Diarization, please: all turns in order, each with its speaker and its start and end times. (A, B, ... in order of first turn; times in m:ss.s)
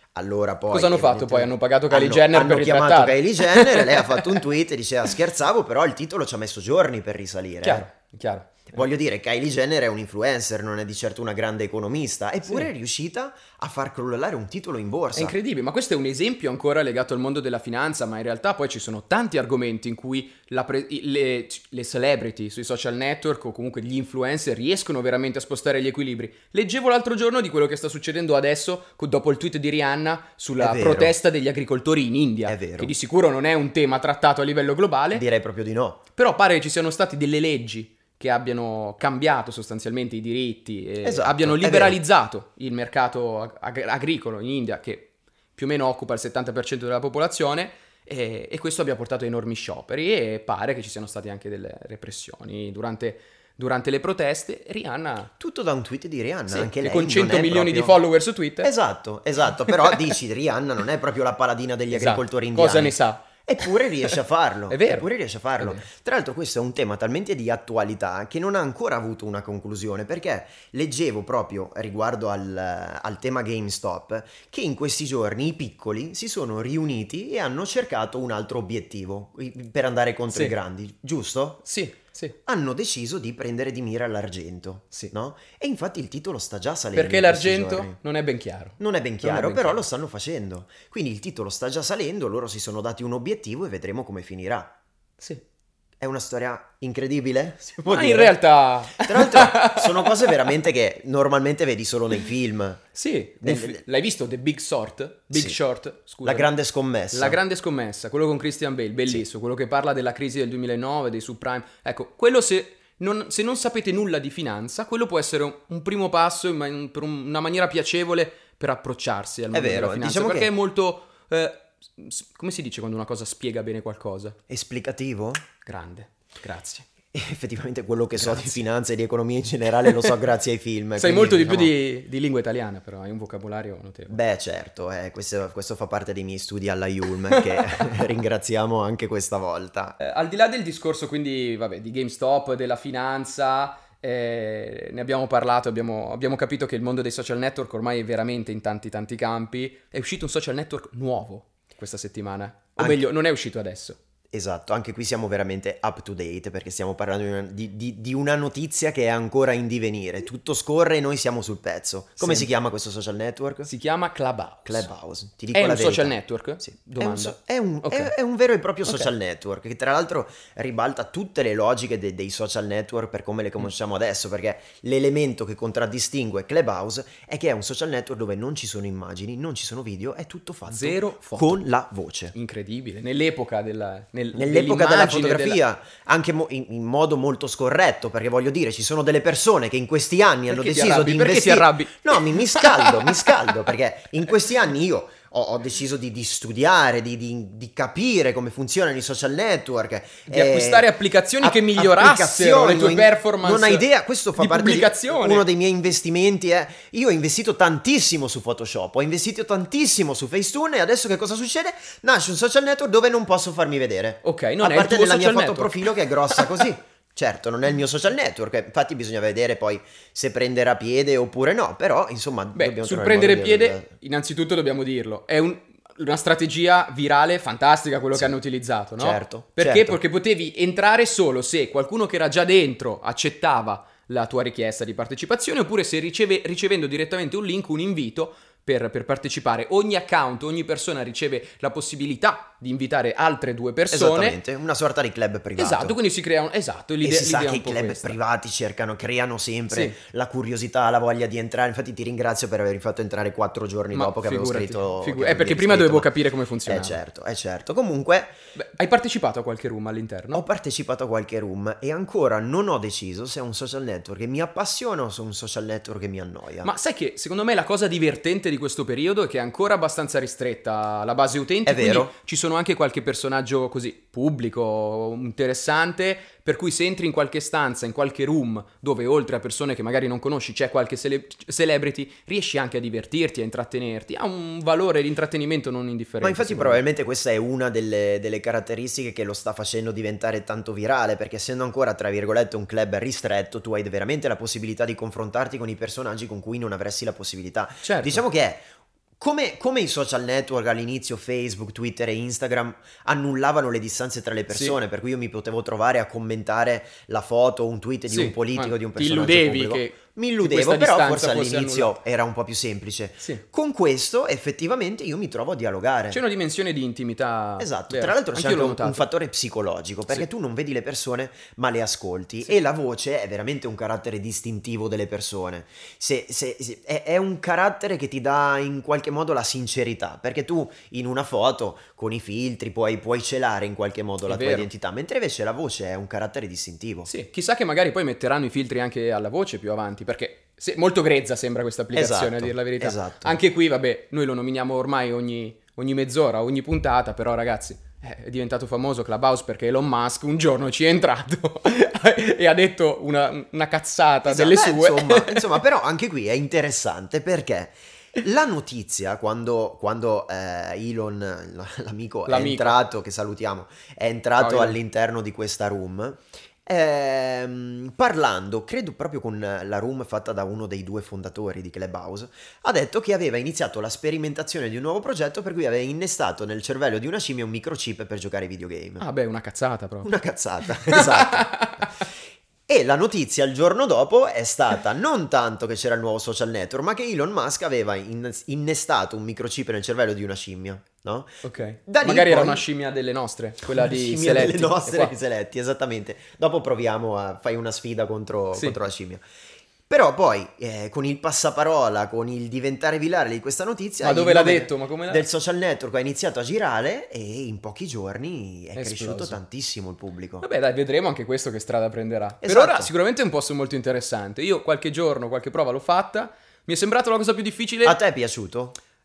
0:00.1-0:07.8 A
0:00.7-0:04.4 B
0:07.6-0:08.8 B
0:08.7-0:15.3 A
0:15.1-0:35.2 B
0:30.6-0:31.1 A
0:32.4-0:32.9 A
0:35.1-0:36.0 A
0:36.1-0:55.3 B
0:41.0-0:42.0 A
0:55.4-0:58.0 A
0:56.5-0:58.7 B
0:58.6-1:21.6 A
1:01.9-1:03.7 B
1:04.7-1:05.0 B
1:05.6-1:05.8 B
1:20.3-1:20.5 B
1:21.6-1:22.4 B
1:22.4-1:28.0 A
1:26.9-1:29.8 B
1:28.8-1:34.7 A
1:36.0-1:42.8 A
1:37.8-1:40.5 B
1:42.9-1:46.5 B
1:43.4-1:43.8 A
1:45.3-1:45.6 A
1:46.2-1:47.4 A
1:47.1-2:04.4 B
1:59.5-2:00.5 A
2:04.5-2:05.4 A
2:05.6-2:06.9 B
2:07.1-2:11.7 A
2:08.2-2:08.7 B
2:09.8-2:10.1 B
2:11.0-2:14.2 B
2:14.1-2:20.0 A
2:17.3-2:18.2 B
2:20.0-2:34.0 B
2:32.8-2:33.0 A
2:34.3-2:43.7 A
2:42.2-2:42.5 B
2:43.6-2:44.9 B
2:44.6-3:02.3 A
2:45.5-2:48.1 B
2:48.8-2:49.1 B
3:00.7-3:01.6 B
3:02.3-3:05.6 B
3:04.3-3:20.9 A
3:10.5-3:13.3 B
3:20.3-3:25.5 B
3:21.4-3:43.9 A
3:34.2-3:36.6 B
3:42.5-4:04.4 B
3:49.0-3:50.0 A
4:03.9-4:06.0 A
4:05.6-4:08.2 B
4:07.0-4:16.1 A
4:09.7-4:10.0 B
4:13.9-4:17.0 B
4:16.6-4:18.3 A
4:18.5-4:20.4 B
4:20.3-4:26.7 A
4:26.6-4:46.8 B
4:31.6-4:32.1 A
4:46.2-4:58.7 A
4:57.8-4:58.2 B
4:59.2-5:16.2 A
5:04.5-5:04.8 B
5:08.1-5:12.0 B
5:16.1-5:19.0 B
5:17.6-5:37.1 A
5:34.2-5:34.7 B
5:37.0-5:55.6 B
5:41.9-5:43.4 A
5:54.2-6:19.0 A
6:02.3-6:02.8 B
6:04.4-6:04.8 B
6:19.0-6:20.1 B
6:20.0-6:21.8 A
6:20.7-6:22.0 B
6:22.7-6:32.6 A
6:31.4-6:35.1 B
6:33.6-6:39.2 A
6:38.5-6:38.8 B
6:39.9-6:50.4 A
6:44.0-6:45.2 B
6:48.7-6:49.4 B
6:50.4-6:58.0 B
6:52.4-6:52.9 A
6:57.8-6:58.8 A